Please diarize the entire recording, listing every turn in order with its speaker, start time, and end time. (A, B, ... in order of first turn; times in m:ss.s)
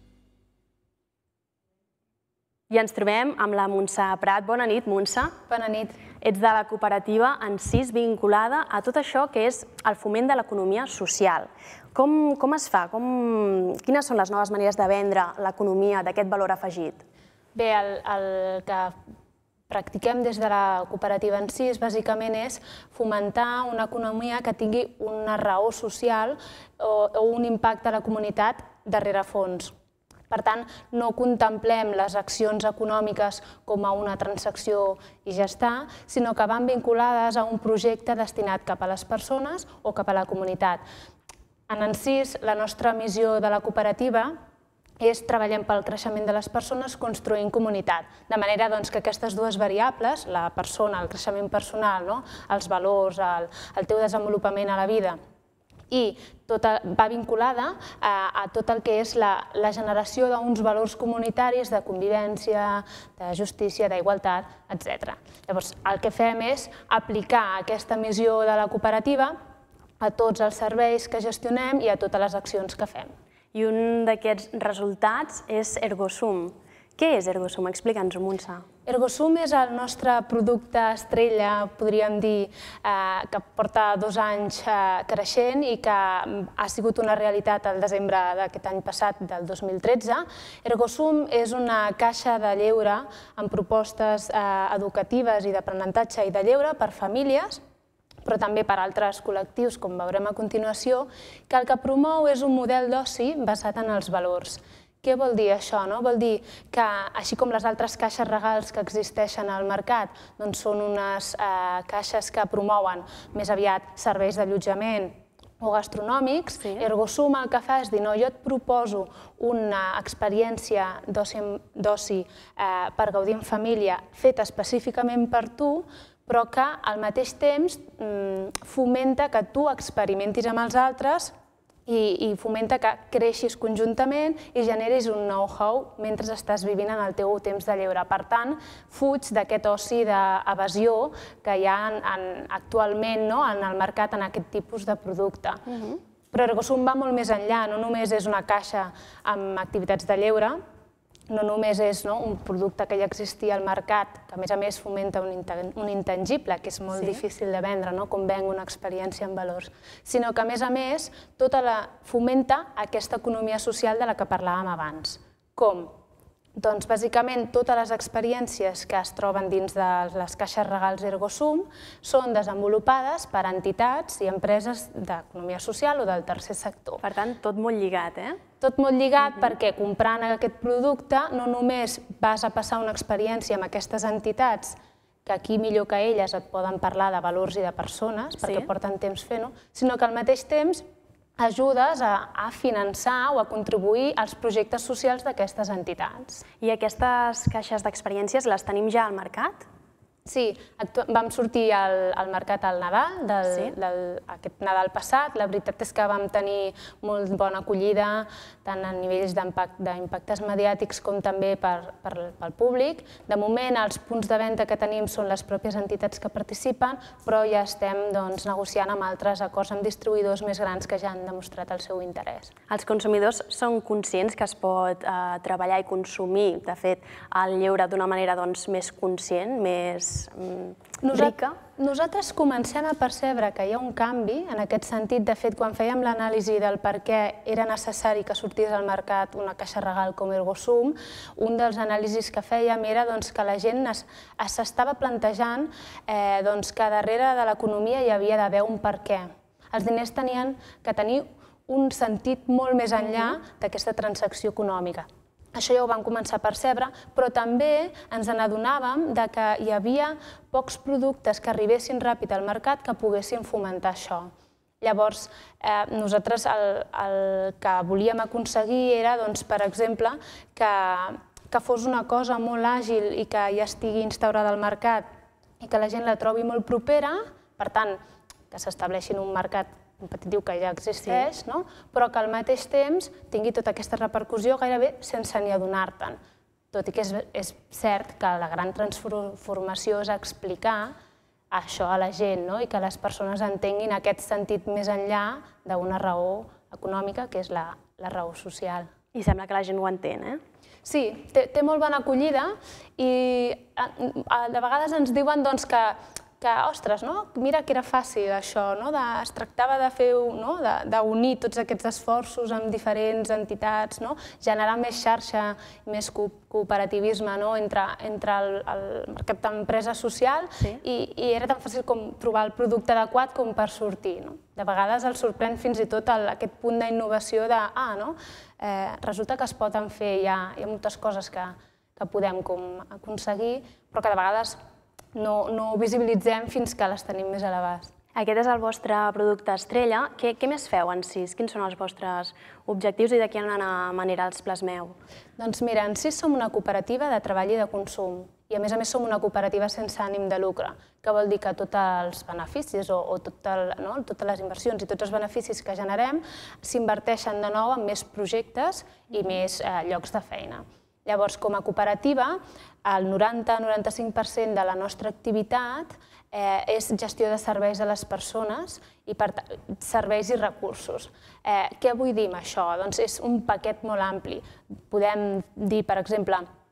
0:02.7-0:05.3 A
0:05.5-0:06.0 B
0:06.2-0:17.0 A
0:17.5-0:18.9 B
0:19.7-0:29.7 B
0:30.3-0:40.8 B
0:41.7-0:44.3 B
0:45.0-0:55.2 B
0:55.9-1:09.3 B
1:10.0-1:13.1 B
1:13.5-1:18.6 A
1:18.8-1:37.6 B
1:38.2-2:11.3 B
1:56.6-1:56.9 A
2:11.8-2:25.6 B
2:25.7-2:26.0 A
2:26.3-2:30.6 B
2:31.3-2:45.9 B
2:36.9-2:37.2 A
2:46.6-2:57.0 B
2:57.0-2:58.4 A
2:58.6-3:10.8 B
3:08.4-3:08.7 A
3:11.4-3:16.4 B
3:16.6-3:19.6 A
3:20.2-3:42.5 B
3:23.4-3:23.7 A
3:42.7-3:51.6 A
3:51.0-4:24.3 B
4:24.8-4:35.1 B
4:35.6-4:38.0 B
4:38.5-4:46.2 B
4:46.7-4:50.9 B
4:51.5-4:58.9 B
4:59.1-5:00.4 A
5:00.8-5:34.6 B
5:35.1-5:37.9 B
5:38.2-5:44.9 A
5:45.4-6:16.4 B